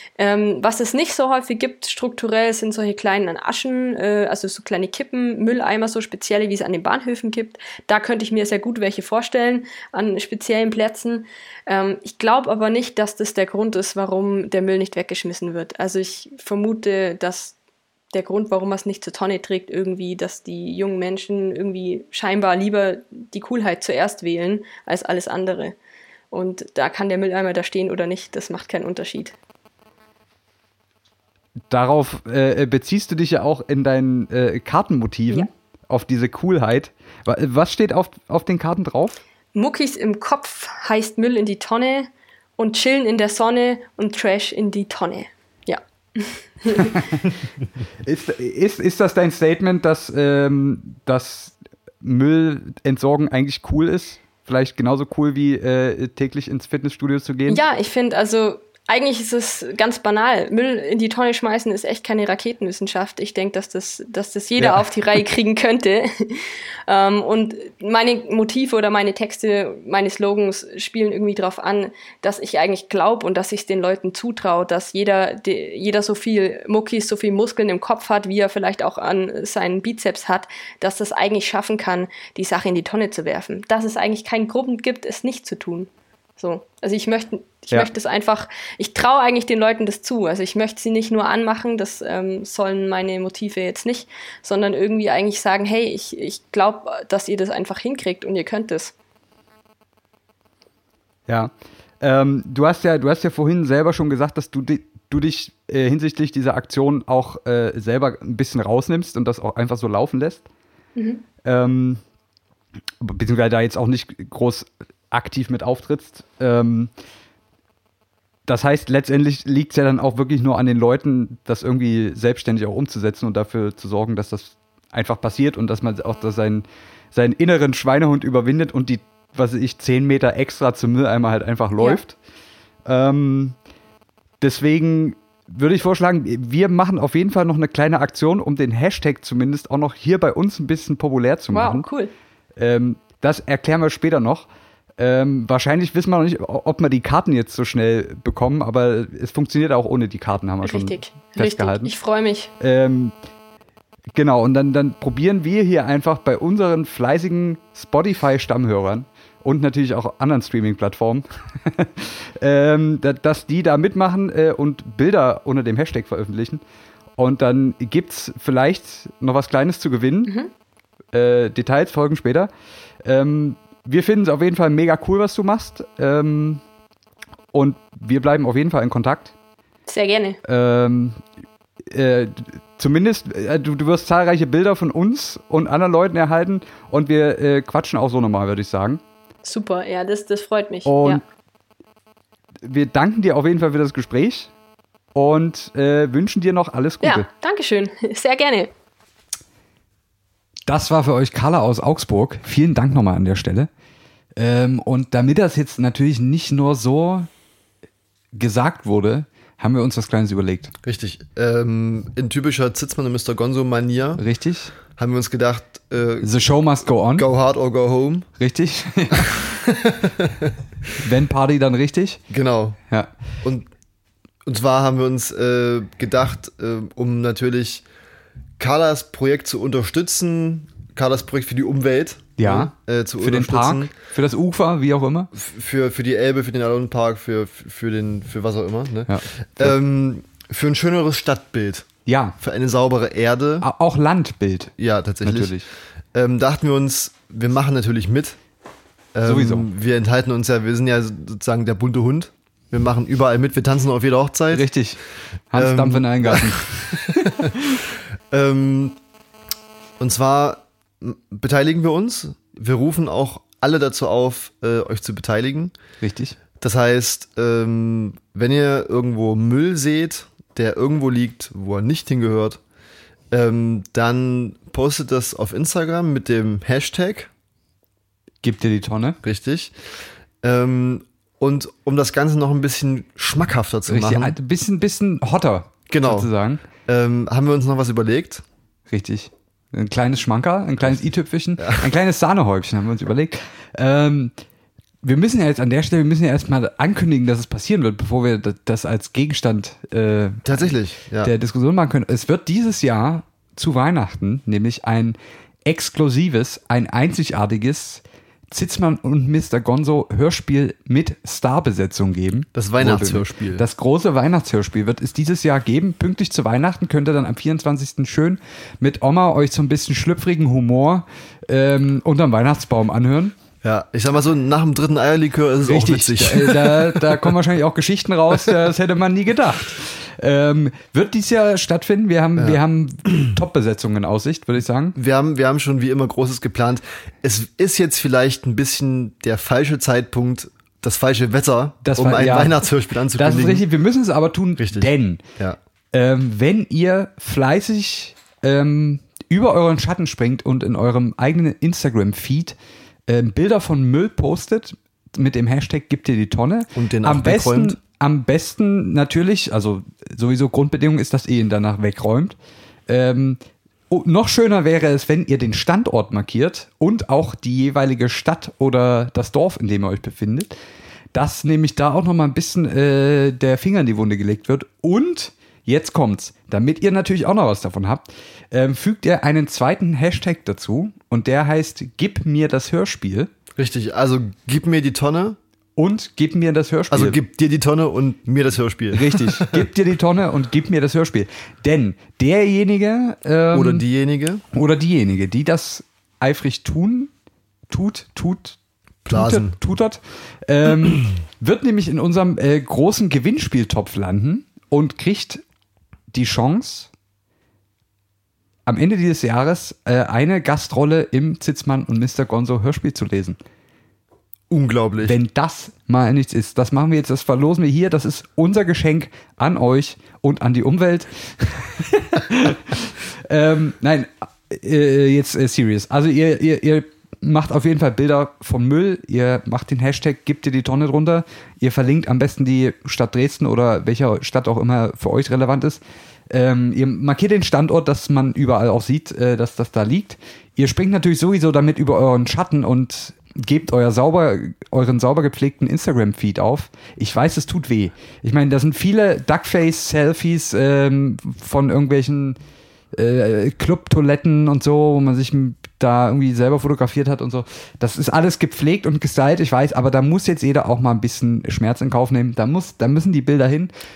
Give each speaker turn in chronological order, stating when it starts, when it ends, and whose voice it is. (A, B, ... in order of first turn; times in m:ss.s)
0:00.2-0:17.6 A
0:18.1-0:25.7 A
0:26.3-0:29.3 A
0:31.7-0:39.2 B
0:39.5-0:47.0 A
0:46.7-0:47.3 B
0:48.0-0:57.6 B
0:57.5-1:38.9 A
1:04.6-1:04.8 B
1:41.3-1:50.4 B
1:51.0-1:51.2 A
1:51.4-1:52.0 B
1:53.0-1:56.9 B
1:58.5-2:12.2 B
2:12.8-2:13.5 B
2:14.4-2:21.8 B
2:21.5-2:22.1 A
2:22.6-2:24.4 B
2:25.0-2:31.9 B
2:30.6-2:32.5 A
2:32.6-2:33.1 B
2:34.1-2:46.6 B
2:47.2-2:50.3 B
2:51.1-2:52.5 B
2:53.0-2:56.6 B
2:57.5-2:59.3 B
2:59.9-3:00.4 A
3:00.4-3:01.2 B
3:01.9-3:09.0 B
3:09.4-3:11.2 A
3:10.8-3:11.2 B
3:12.6-3:14.5 B
3:15.1-3:17.3 B
3:17.0-3:18.7 A
3:20.7-3:23.7 B
3:24.4-3:27.3 B
3:28.3-3:30.7 B
3:30.8-3:34.2 C
3:34.2-3:34.7 B
3:34.9-3:36.4 C
3:36.2-3:37.3 B
3:37.1-3:38.3 C
3:38.4-3:39.5 B
3:39.3-3:40.6 C
3:41.0-3:42.2 B
3:42.3-3:42.8 C
3:43.4-3:43.7 C
3:44.4-3:47.8 C
3:48.6-3:53.9 C
3:52.4-3:55.3 B
3:55.3-4:01.9 C
3:59.1-3:59.7 B
4:02.0-4:02.4 B
4:02.4-4:03.6 C
4:03.6-4:05.6 B
4:04.8-4:05.6 C
4:06.1-4:08.4 C
4:09.1-4:14.7 C
4:09.2-4:09.7 B
4:14.5-4:15.0 B
4:15.5-4:17.8 B
4:15.5-4:17.5 C
4:18.3-4:19.0 C
4:20.0-4:25.7 C
4:26.0-4:26.4 B
4:26.6-4:32.6 C
4:33.3-4:37.3 C
4:38.4-4:39.2 B
4:39.2-4:39.7 C
4:40.4-4:44.4 C
4:43.9-4:46.6 B
4:45.9-4:46.3 C
4:46.8-4:48.4 C
4:48.9-4:54.3 B
4:51.6-4:51.9 C
4:55.0-5:23.3 B
5:00.4-5:01.3 C
5:12.5-5:13.6 C
5:23.6-5:27.1 C
5:25.6-5:35.0 B
5:32.4-5:33.2 C
5:35.0-5:43.6 C
5:41.8-5:45.2 B
5:44.6-5:45.6 C
5:45.9-5:52.5 B
5:53.1-6:02.3 B
5:56.7-5:57.8 C
6:02.9-6:03.4 B
6:03.9-6:10.5 B
6:11.1-6:23.3 B
6:23.6-6:25.4 C
6:25.8-6:27.2 B
6:26.9-6:29.6 C
6:28.9-6:33.8 B
6:33.5-6:34.4 C
6:34.5-6:37.1 B
6:37.7-6:38.6 B
6:39.0-6:39.6 C
6:39.1-6:45.4 B
6:46.1-6:46.9 B
6:48.7-6:53.4 B
6:54.5-6:55.2 C
6:55.0-7:32.4 B
7:32.9-7:43.7 B